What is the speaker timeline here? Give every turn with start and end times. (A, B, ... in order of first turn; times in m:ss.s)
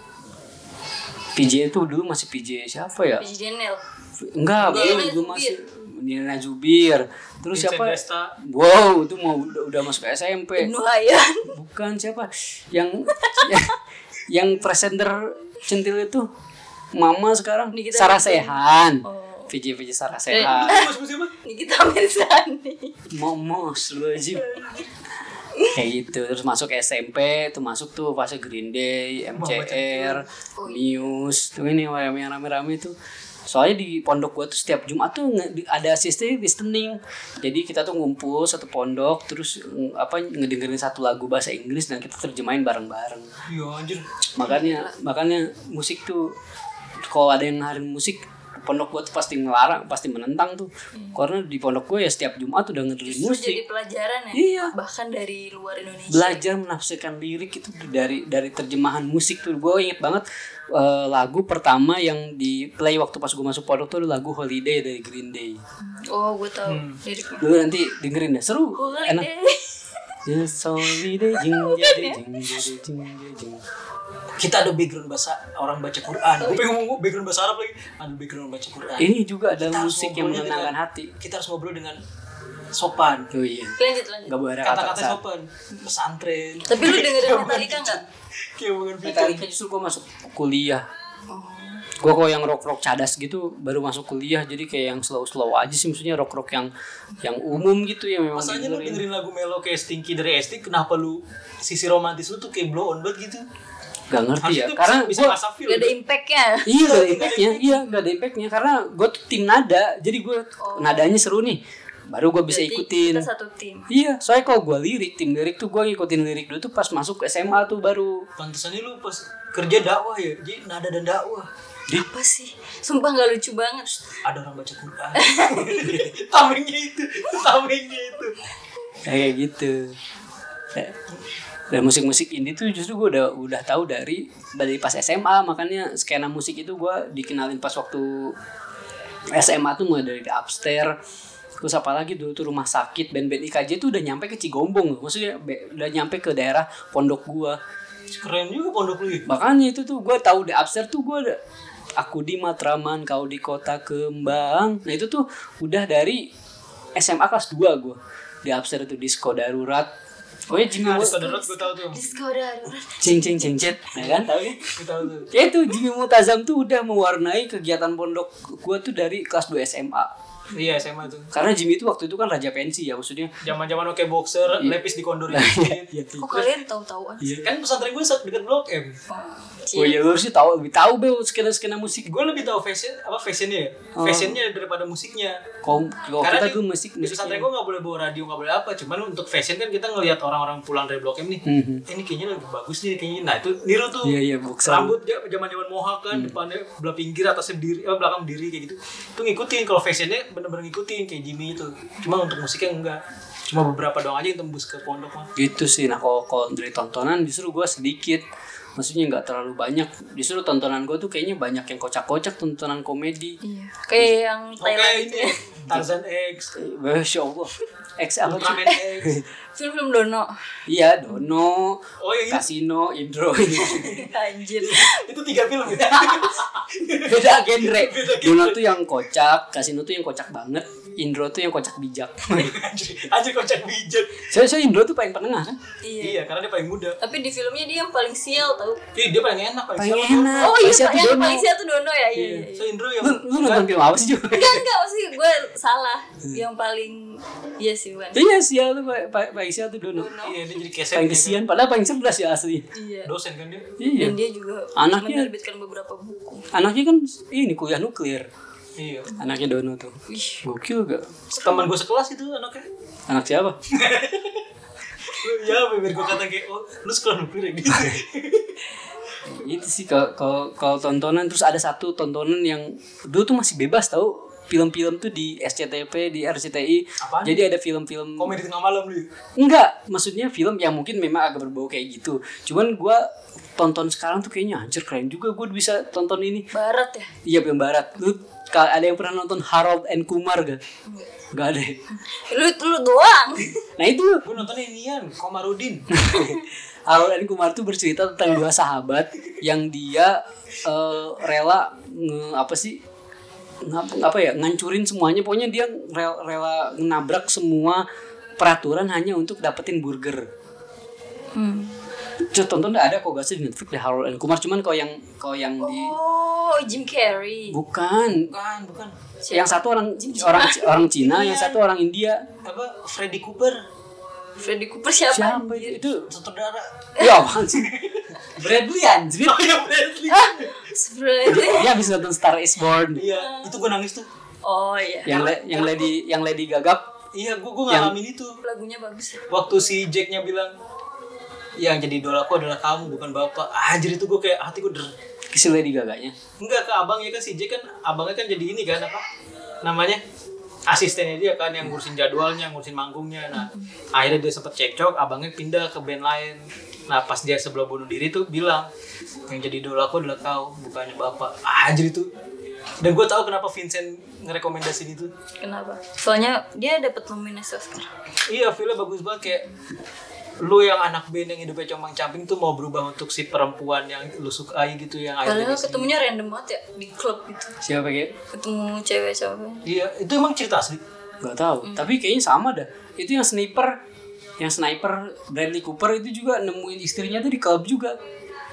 0:01.3-0:03.3 A
0:03.2-0:03.8 B
0:04.2-0:10.7 A
0:04.6-0:05.6 B
0:04.7-0:05.0 C
0:07.5-0:08.3 C
0:10.6-0:11.5 B
0:11.5-0:16.3 A
0:13.1-0:13.7 B
0:16.9-0:20.8 A
0:17.7-0:19.5 B
0:20.3-0:23.0 B
0:20.4-0:21.3 C
0:23.1-0:24.6 A
0:24.3-0:24.9 B
0:25.7-0:32.9 A
0:29.3-0:30.2 C
0:30.6-0:31.0 B
0:33.5-0:43.3 A
0:43.5-0:44.1 C
0:44.3-0:46.3 A
0:44.4-0:44.9 B
0:47.0-0:53.6 A
0:53.0-0:56.4 B
0:54.3-0:54.7 A
0:56.1-1:05.6 A
1:05.8-1:07.5 B
1:06.6-1:07.0 C
1:07.4-1:09.3 A
1:08.7-1:10.2 B
1:10.2-1:13.6 A
1:10.8-1:12.6 B
1:14.4-1:19.1 C
1:19.0-1:21.1 A
1:19.6-1:22.0 C
1:22.7-1:23.3 C
1:23.3-1:25.2 A
1:23.8-1:24.3 B
1:24.6-1:28.0 C
1:26.7-1:28.0 B
1:28.6-1:29.4 C
1:29.0-1:30.8 A
1:31.3-1:31.8 B
1:32.0-1:36.7 A
1:37.2-1:39.0 A
1:38.3-1:43.4 C
1:44.1-1:45.4 A
1:44.4-1:45.9 C
1:45.7-1:47.0 B
1:46.6-1:53.3 A
1:46.8-1:47.9 C
1:50.6-1:51.2 B
1:52.5-1:53.9 B
1:53.9-1:58.3 A
1:58.4-2:01.5 C
2:01.9-2:04.2 B
2:04.2-2:08.4 C
2:05.1-2:06.0 B
2:09.0-2:10.0 A
2:11.7-2:18.4 A
2:19.3-2:20.9 A
2:21.6-2:27.6 A
2:28.1-2:29.2 C
2:29.2-2:31.4 A
2:32.0-2:36.3 A
2:37.0-2:39.9 A
2:40.5-2:41.2 A
2:40.7-2:42.0 C
2:41.0-2:43.7 B
2:43.0-2:44.7 A
2:43.9-2:45.3 C
2:45.3-2:50.1 A
2:50.5-2:51.3 C
2:51.3-2:53.4 A
2:53.4-2:55.9 C
2:55.3-2:56.5 A
2:56.1-2:57.4 B
2:57.2-2:57.5 A
2:57.4-2:59.0 C
2:59.1-3:00.0 B
2:59.7-3:02.1 A
3:02.0-3:05.4 C
3:03.9-3:04.4 A
3:05.6-3:07.5 A
3:06.2-3:25.3 C
3:11.4-3:11.8 A
3:14.0-3:15.0 A
3:16.1-3:16.4 A
3:25.4-3:28.2 A
3:28.8-3:33.4 A
3:33.4-3:35.4 B
3:34.6-3:36.5 C
3:36.5-3:39.2 A
3:38.2-3:39.2 C
3:38.4-3:38.8 B
3:39.6-3:40.3 B
3:40.7-3:44.0 A
3:42.0-3:42.4 C
3:43.6-3:45.0 B
3:43.6-3:44.0 C
3:44.6-3:48.8 C
3:47.0-3:52.6 A
3:52.4-3:54.3 C
3:54.3-3:55.6 A
3:55.8-3:56.2 B
3:56.0-3:57.0 C
3:57.0-3:58.8 B
3:58.9-4:00.6 C
3:59.8-4:01.5 A
4:00.4-4:02.7 B
4:02.2-4:02.5 A
4:02.5-4:03.7 C
4:03.0-4:04.6 A
4:04.2-4:08.3 B
4:08.1-4:10.1 A
4:09.9-4:10.4 B
4:10.2-4:11.4 C
4:10.9-4:12.7 A
4:12.7-4:13.1 B
4:13.0-4:13.7 C
4:13.8-4:14.2 A
4:13.9-4:16.5 B
4:14.8-4:15.3 A
4:16.5-4:18.3 A
4:18.8-4:19.2 C
4:19.2-4:21.2 A
4:20.1-4:20.4 B
4:21.3-4:22.7 C
4:21.4-4:21.6 B
4:23.1-4:23.6 A
4:23.7-4:24.4 C
4:25.0-4:28.6 C
4:27.7-4:28.0 A
4:29.2-4:38.4 A
4:37.0-4:37.4 C
4:38.2-4:39.1 C
4:39.4-4:43.0 A
4:43.6-4:46.5 A
4:46.5-4:47.1 B
4:47.2-4:50.6 A
4:51.3-4:51.8 A
4:51.9-4:53.6 B
4:53.8-4:54.3 A
4:54.2-4:55.9 C
4:55.9-5:02.8 A
4:56.1-4:56.4 B
5:03.6-5:07.8 A
5:08.4-5:10.2 A
5:11.3-5:11.8 B
5:12.2-5:15.9 A
5:15.6-5:17.6 B
5:17.5-5:18.3 A
5:18.2-5:18.9 C
5:19.2-5:21.5 B
5:19.3-5:22.3 A
5:21.1-5:21.4 C
5:22.4-5:23.6 C
5:24.4-5:25.9 B
5:25.1-5:26.1 A
5:26.1-5:26.7 C
5:27.0-5:27.3 B
5:27.0-5:27.7 A
5:27.3-5:30.6 C
5:28.3-5:29.6 A
5:30.1-5:31.7 B
5:31.3-5:33.1 A
5:33.0-5:34.0 C
5:33.0-5:33.6 B
5:34.4-5:35.3 B
5:35.0-5:36.9 A
5:35.2-5:35.8 C
5:37.1-5:38.4 C
5:37.7-5:37.9 A
5:38.4-5:39.2 B
5:39.3-5:40.5 C
5:41.6-5:44.9 C
5:45.3-5:46.1 A
5:46.4-5:49.0 C
5:49.6-5:50.0 C
5:50.7-5:58.7 C
5:53.3-5:53.7 B
5:59.3-6:02.1 C
6:02.8-6:05.1 C
6:05.4-6:07.9 B
6:08.3-6:09.5 C
6:10.4-6:15.9 C
6:15.2-6:17.6 B
6:17.6-6:18.1 A
6:18.3-6:19.6 B
6:19.6-6:20.8 C
6:21.2-6:23.8 A
6:21.6-6:21.9 B
6:24.4-6:28.0 A